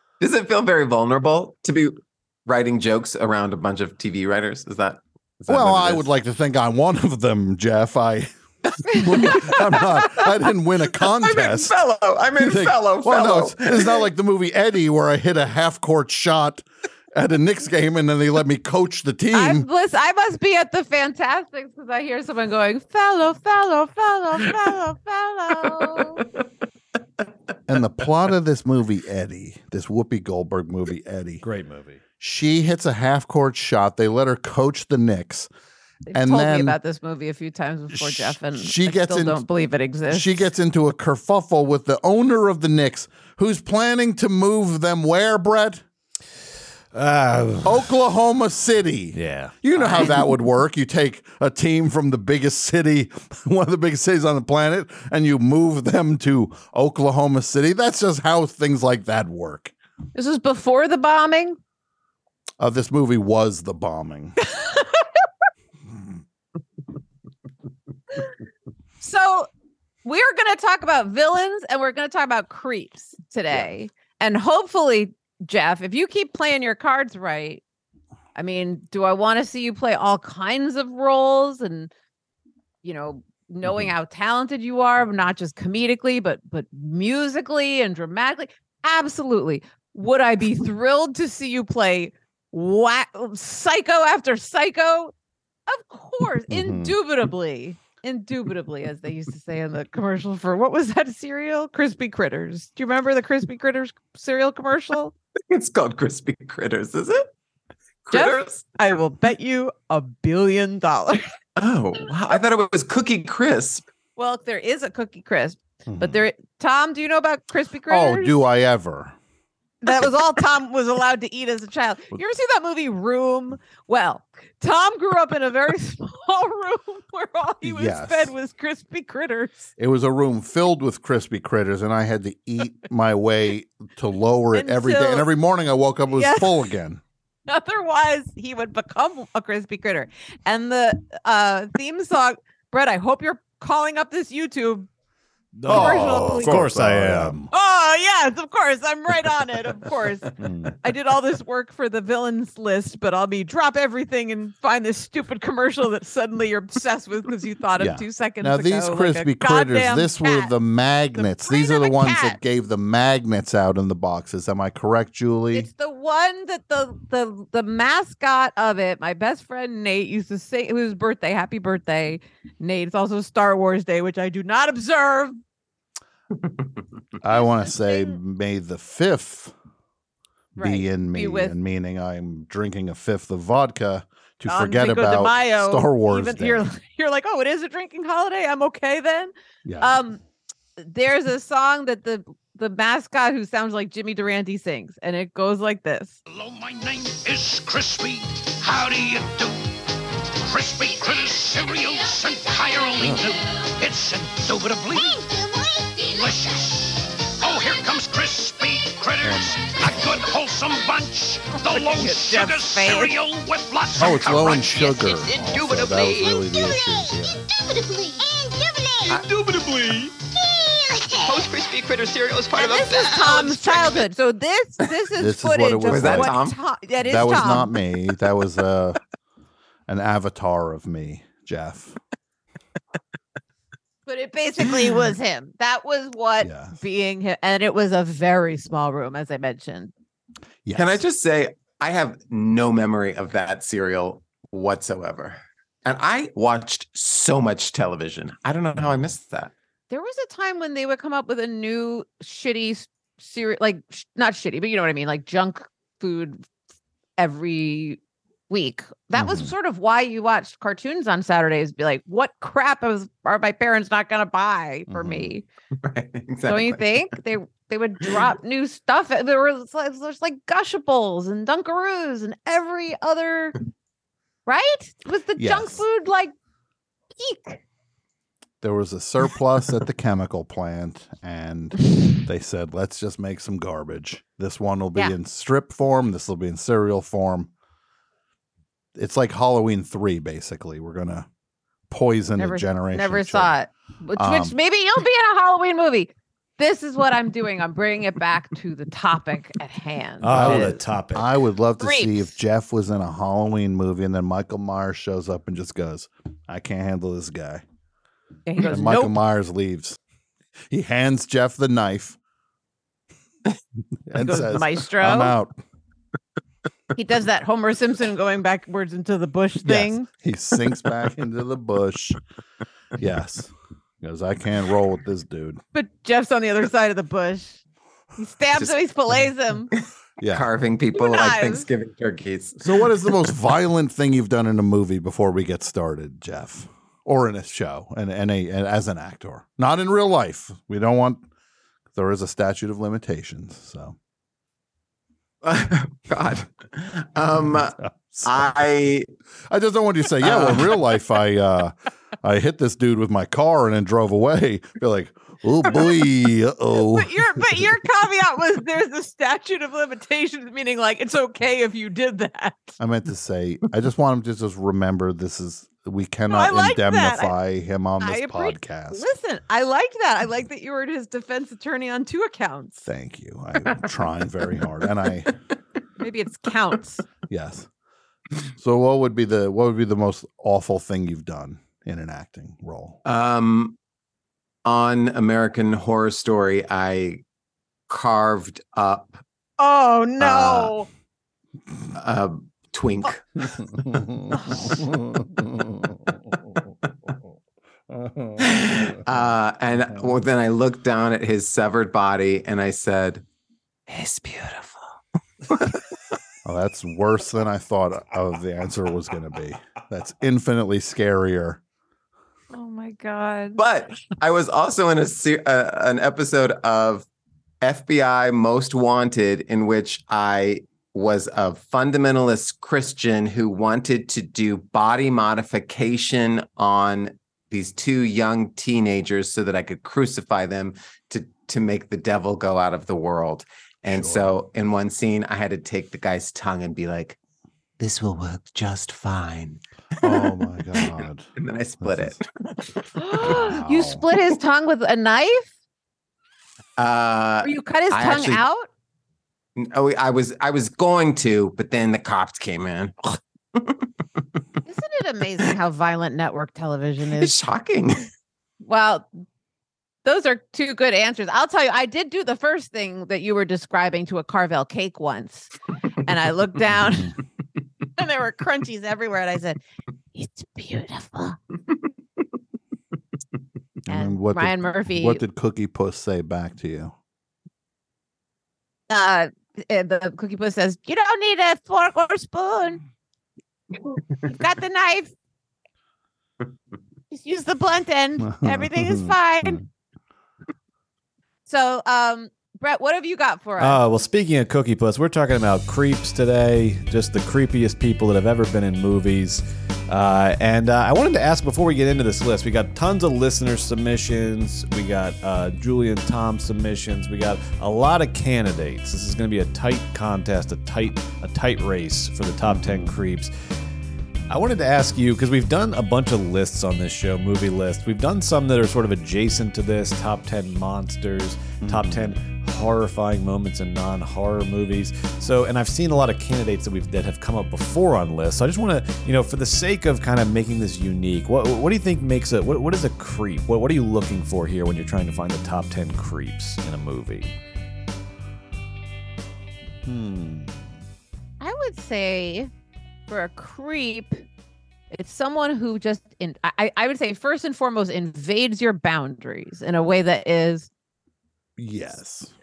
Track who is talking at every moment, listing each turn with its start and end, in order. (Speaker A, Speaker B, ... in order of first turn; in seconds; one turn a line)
Speaker A: 0.2-6.0
Speaker B: 5.5-8.3
Speaker B: 8.8-11.7
Speaker A: 9.3-9.5
Speaker A: 11.2-14.1
Speaker B: 12.4-19.6
Speaker C: 19.3-26.2
Speaker B: 27.7-31.4
Speaker D: 31.4-32.0
Speaker B: 32.2-35.5
Speaker C: 36.1-40.5
Speaker B: 36.1-36.8
Speaker B: 37.9-39.4
Speaker B: 40.1-45.8
Speaker D: 46.9-47.8
Speaker B: 47.6-59.7
Speaker D: 49.1-49.5
Speaker C: 49.7-50.2
Speaker C: 60.1-61.6
Speaker B: 62.6-64.4
Speaker C: 64.5-65.0
Speaker C: 69.0-69.5
Speaker C: 70.0-77.6
Speaker C: 78.3-81.9
Speaker C: 82.8-95.1
Speaker B: 83.6-83.9
Speaker C: 95.7-105.1
Speaker B: 96.5-97.0
Speaker A: 105.5-107.3
Speaker A: 108.0-108.7
Speaker C: 108.1-111.2
Speaker A: 111.6-113.8
Speaker C: 114.2-118.3
Speaker B: 115.9-116.2
Speaker B: 117.9-119.1
Speaker C: 119.8-129.7
Speaker B: 127.6-128.3
Speaker B: 129.8-137.0
Speaker C: 134.5-135.3
Speaker C: 136.1-136.5
Speaker C: 137.5-144.9
Speaker D: 145.6-147.4
Speaker B: 145.7-147.5
Speaker C: 145.7-146.6
Speaker C: 147.5-150.3
Speaker B: 150.4-150.8
Speaker C: 150.8-160.5
Speaker B: 157.8-165.7
Speaker C: 161.2-162.4
Speaker C: 165.5-175.4
Speaker B: 177.2-179.5
Speaker C: 177.3-178.2
Speaker C: 180.6-181.6
Speaker B: 180.6-186.7
Speaker C: 184.5-190.2
Speaker B: 189.6-190.0
Speaker C: 190.8-196.2
Speaker E: 196.3-199.7
Speaker E: 200.4-215.1
Speaker B: 209.2-210.2
Speaker C: 211.7-213.1
Speaker B: 214.0-217.4
Speaker F: 215.0-216.7
Speaker F: 219.0-220.1
Speaker F: 221.2-224.0
Speaker C: 222.6-227.7
Speaker B: 225.2-226.4
Speaker A: 225.9-226.6
Speaker B: 227.0-229.0
Speaker B: 229.9-232.0
Speaker C: 234.1-239.9
Speaker B: 236.4-236.7
Speaker B: 240.6-241.0
Speaker A: 240.7-249.5
Speaker C: 249.9-256.4
Speaker C: 257.2-265.4
Speaker B: 259.1-259.5
Speaker B: 264.9-265.3
Speaker A: 265.8-266.8
Speaker C: 266.5-273.6
Speaker C: 274.5-276.3
Speaker B: 275.4-275.8
Speaker C: 277.2-277.6
Speaker B: 278.6-287.5
Speaker B: 288.9-291.3
Speaker B: 291.9-293.6
Speaker C: 292.4-300.8
Speaker B: 294.1-294.6
Speaker D: 300.2-301.3
Speaker B: 300.3-307.6
Speaker C: 301.8-302.3
Speaker C: 308.5-309.2
Speaker B: 308.6-310.0
Speaker B: 310.7-312.2
Speaker B: 314.1-315.6
Speaker C: 314.2-315.4
Speaker C: 316.9-320.1
Speaker B: 319.6-322.2
Speaker B: 323.0-325.6
Speaker C: 325.7-327.6
Speaker C: 328.2-329.7
Speaker A: 329.8-333.3
Speaker B: 330.2-330.5
Speaker C: 330.9-331.7
Speaker B: 332.6-341.3
Speaker B: 341.9-343.9
Speaker A: 345.4-349.1
Speaker B: 347.4-348.5
Speaker B: 349.5-357.6
Speaker A: 350.2-350.8
Speaker C: 355.7-356.0
Speaker C: 356.7-362.8
Speaker B: 362.8-369.1
Speaker C: 366.3-367.4
Speaker C: 368.0-372.9
Speaker B: 372.8-375.3
Speaker C: 376.0-377.0
Speaker B: 377.3-377.7
Speaker B: 378.6-383.0
Speaker A: 383.1-383.8
Speaker A: 384.6-387.2
Speaker A: 387.9-389.2
Speaker C: 389.6-390.9
Speaker A: 390.2-390.7
Speaker A: 391.9-393.5
Speaker B: 393.8-395.9
Speaker C: 394.3-394.8
Speaker A: 398.4-403.2
Speaker A: 403.9-404.8
Speaker A: 405.5-405.8
Speaker B: 406.4-411.6
Speaker C: 412.5-413.6
Speaker A: 413.6-417.1
Speaker A: 417.6-437.2
Speaker B: 433.9-434.4
Speaker A: 437.8-442.7
Speaker B: 440.0-441.3
Speaker B: 441.8-442.2
Speaker C: 442.9-445.5
Speaker B: 443.2-444.0
Speaker A: 446.8-448.4
Speaker C: 447.4-448.7
Speaker A: 449.6-453.9
Speaker C: 454.6-457.3
Speaker A: 457.2-458.1
Speaker C: 458.6-459.1
Speaker C: 460.1-465.5
Speaker C: 466.1-467.1
Speaker B: 466.8-467.1
Speaker C: 468.0-469.6
Speaker C: 470.1-471.4
Speaker B: 473.9-476.9
Speaker C: 473.9-475.2
Speaker C: 478.9-482.8
Speaker C: 484.3-485.1
Speaker C: 487.1-489.6
Speaker B: 488.2-489.6
Speaker C: 491.5-493.8
Speaker D: 493.6-513.3
Speaker B: 512.5-513.0
Speaker D: 514.3-537.3
Speaker B: 521.6-522.1
Speaker B: 539.9-540.6
Speaker C: 541.4-542.5
Speaker C: 543.1-544.2
Speaker C: 544.9-550.7
Speaker B: 551.6-552.3